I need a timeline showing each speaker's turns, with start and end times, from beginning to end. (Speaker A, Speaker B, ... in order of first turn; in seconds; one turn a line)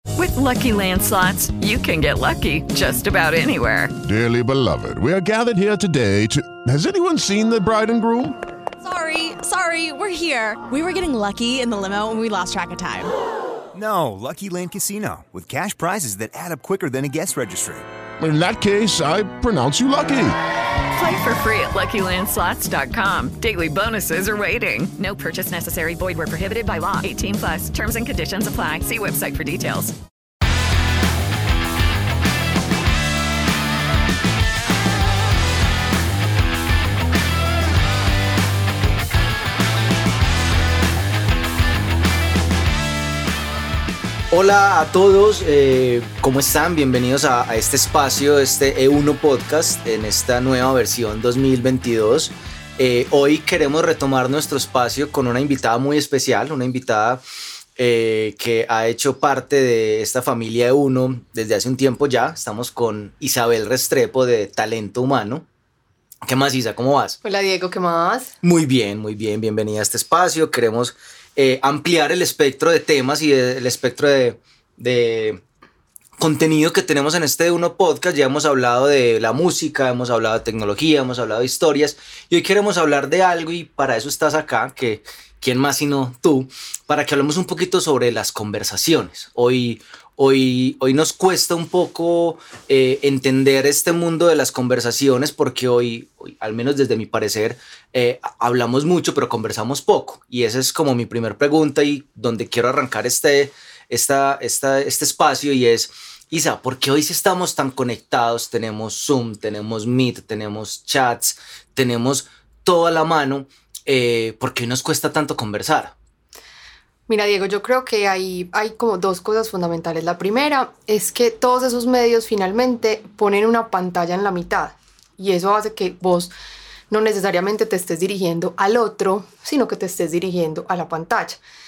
Speaker A: 0.2-3.9
Speaker B: 4.0-8.4
Speaker C: 8.8-13.1
Speaker D: 13.7-17.9
Speaker B: 18.2-20.4
Speaker A: 20.9-29.9
Speaker E: 44.3-57.2
Speaker E: 57.8-65.5
Speaker E: 66.2-67.2
Speaker F: 67.2-68.3
Speaker E: 68.4-75.4
Speaker E: 76.2-116.0
Speaker F: 117.1-126.3
Speaker F: 126.9-131.4